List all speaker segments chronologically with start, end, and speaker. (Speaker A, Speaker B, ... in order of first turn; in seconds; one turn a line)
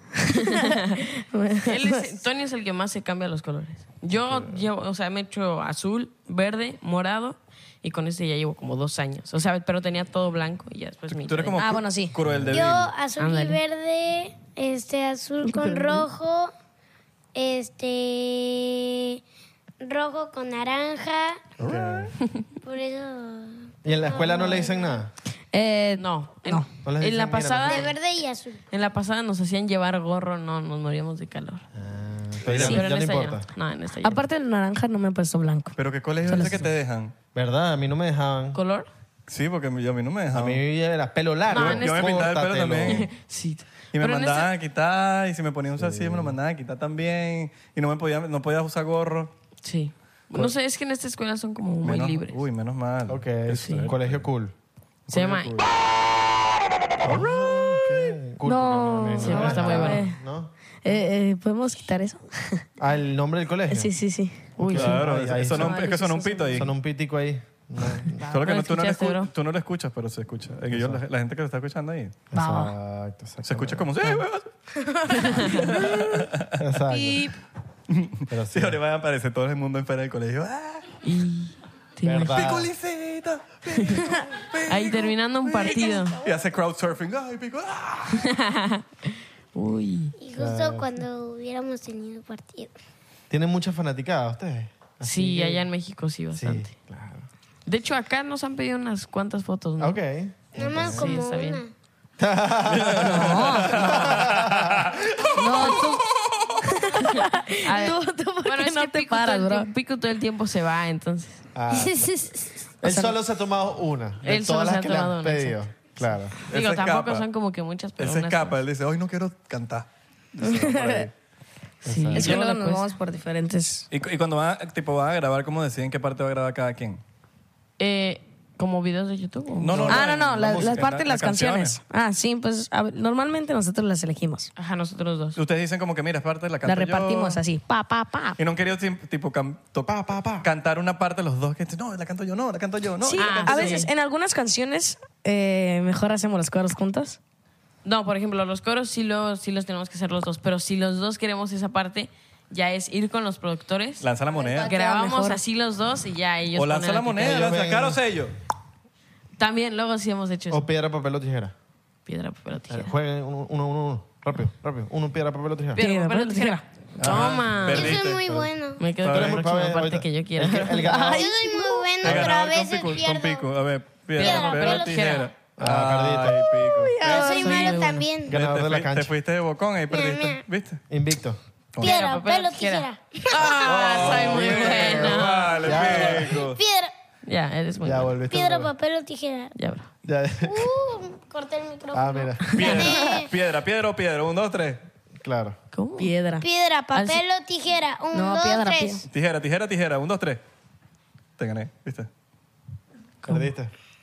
Speaker A: 0.4-2.1
Speaker B: 0.5-1.0
Speaker B: 1.6-11.7
Speaker C: 4.2-4.6
Speaker D: 11.1-12.9
Speaker A: 11.6-12.2
Speaker C: 12.2-12.8
Speaker E: 12.5-16.5
Speaker B: 13.2-13.6
Speaker A: 15.5-16.1
Speaker E: 17.4-19.2
Speaker E: 19.8-21.4
Speaker C: 21.6-22.1
Speaker D: 21.6-22.1
Speaker E: 22.6-25.0
Speaker C: 23.9-25.1
Speaker A: 25.5-26.7
Speaker B: 26.0-27.9
Speaker C: 26.8-27.9
Speaker E: 27.7-28.6
Speaker B: 28.7-31.6
Speaker C: 31.7-33.5
Speaker D: 32.4-32.8
Speaker B: 32.7-34.2
Speaker A: 34.0-35.8
Speaker D: 35.8-37.1
Speaker A: 36.3-36.7
Speaker C: 37.4-38.6
Speaker B: 38.5-38.9
Speaker D: 39.3-40.6
Speaker C: 40.3-43.1
Speaker B: 41.5-42.3
Speaker D: 41.5-43.1
Speaker B: 42.9-44.5
Speaker D: 43.9-49.3
Speaker C: 45.8-46.4
Speaker B: 49.6-52.4
Speaker D: 51.8-54.2
Speaker C: 53.1-54.5
Speaker B: 53.6-53.9
Speaker D: 55.1-55.7
Speaker B: 55.1-55.5
Speaker C: 57.0-60.5
Speaker A: 58.4-60.2
Speaker B: 59.2-60.0
Speaker A: 60.8-62.6
Speaker C: 62.8-63.9
Speaker A: 63.7-64.5
Speaker B: 64.6-65.0
Speaker C: 64.6-65.8
Speaker D: 64.7-66.7
Speaker A: 65.6-66.6
Speaker C: 66.5-68.2
Speaker B: 68.2-69.3
Speaker D: 68.3-72.2
Speaker C: 70.7-71.0
Speaker C: 72.3-74.2
Speaker A: 72.3-72.7
Speaker D: 73.4-74.5
Speaker A: 74.8-76.1
Speaker B: 75.2-75.7
Speaker D: 75.5-76.6
Speaker C: 76.6-77.3
Speaker A: 76.9-77.3
Speaker D: 77.9-81.0
Speaker C: 78.3-78.8
Speaker B: 81.0-82.5
Speaker C: 82.0-82.7
Speaker D: 82.3-88.3
Speaker B: 83.7-84.0
Speaker B: 84.7-86.2
Speaker B: 88.1-90.2
Speaker E: 90.2-92.7
Speaker C: 90.3-90.9
Speaker C: 93.3-95.7
Speaker B: 95.0-96.7
Speaker C: 96.3-97.3
Speaker B: 97.7-100.0
Speaker C: 99.8-101.1
Speaker E: 100.6-101.7
Speaker B: 100.8-101.6
Speaker C: 102.2-105.7
Speaker D: 102.7-105.0
Speaker A: 103.1-104.1
Speaker A: 105.3-106.1
Speaker A: 106.6-109.7
Speaker B: 107.6-111.4
Speaker C: 111.5-112.2
Speaker C: 112.8-116.4
Speaker A: 112.8-113.2
Speaker B: 114.2-115.6
Speaker D: 116.5-117.3
Speaker B: 116.5-118.6
Speaker D: 118.0-121.1
Speaker A: 120.4-121.1
Speaker C: 120.7-121.1
Speaker C: 121.8-122.4
Speaker B: 121.8-122.9
Speaker A: 122.1-123.9
Speaker D: 122.2-122.5
Speaker D: 123.9-127.0
Speaker B: 127.8-129.9
Speaker D: 129.6-131.8
Speaker C: 129.7-130.9
Speaker A: 129.9-134.5
Speaker B: 134.6-135.4
Speaker D: 135.4-137.4
Speaker A: 136.7-138.4
Speaker D: 138.4-143.8
Speaker C: 139.8-140.5
Speaker A: 143.1-147.2
Speaker B: 143.2-143.9
Speaker B: 147.8-154.1
Speaker D: 154.0-154.7
Speaker A: 154.5-155.4
Speaker B: 154.6-157.5
Speaker D: 156.6-158.3
Speaker C: 157.2-158.0
Speaker B: 159.4-160.7
Speaker C: 160.5-161.5
Speaker B: 162.1-162.9
Speaker C: 162.7-165.8
Speaker B: 165.8-168.0
Speaker A: 165.8-166.6
Speaker D: 167.0-168.4
Speaker E: 167.7-168.8
Speaker B: 168.8-170.9
Speaker D: 169.0-169.4
Speaker C: 169.1-171.3
Speaker A: 170.7-171.9
Speaker E: 171.1-173.5
Speaker D: 172.0-177.7
Speaker B: 174.2-175.3
Speaker E: 174.2-175.2
Speaker C: 175.6-176.5
Speaker A: 176.6-177.8
Speaker E: 177.0-178.3
Speaker B: 177.0-178.1
Speaker C: 178.3-179.1
Speaker D: 178.3-180.8
Speaker E: 179.9-180.4
Speaker C: 180.9-181.4
Speaker E: 181.8-183.7
Speaker B: 181.8-185.8
Speaker D: 183.5-186.6
Speaker C: 184.0-186.4
Speaker E: 186.3-186.9
Speaker B: 187.2-188.2
Speaker C: 187.8-188.7
Speaker E: 188.3-189.6
Speaker B: 189.6-189.9
Speaker C: 190.1-190.7
Speaker E: 190.4-193.3
Speaker C: 191.9-192.7
Speaker D: 192.5-194.8
Speaker B: 192.6-192.9
Speaker C: 195.2-195.6
Speaker B: 195.7-196.1
Speaker A: 196.0-196.5
Speaker E: 196.4-199.1
Speaker B: 196.9-197.2
Speaker A: 198.1-199.1
Speaker D: 199.1-200.4
Speaker D: 201.4-202.1
Speaker C: 203.3-203.7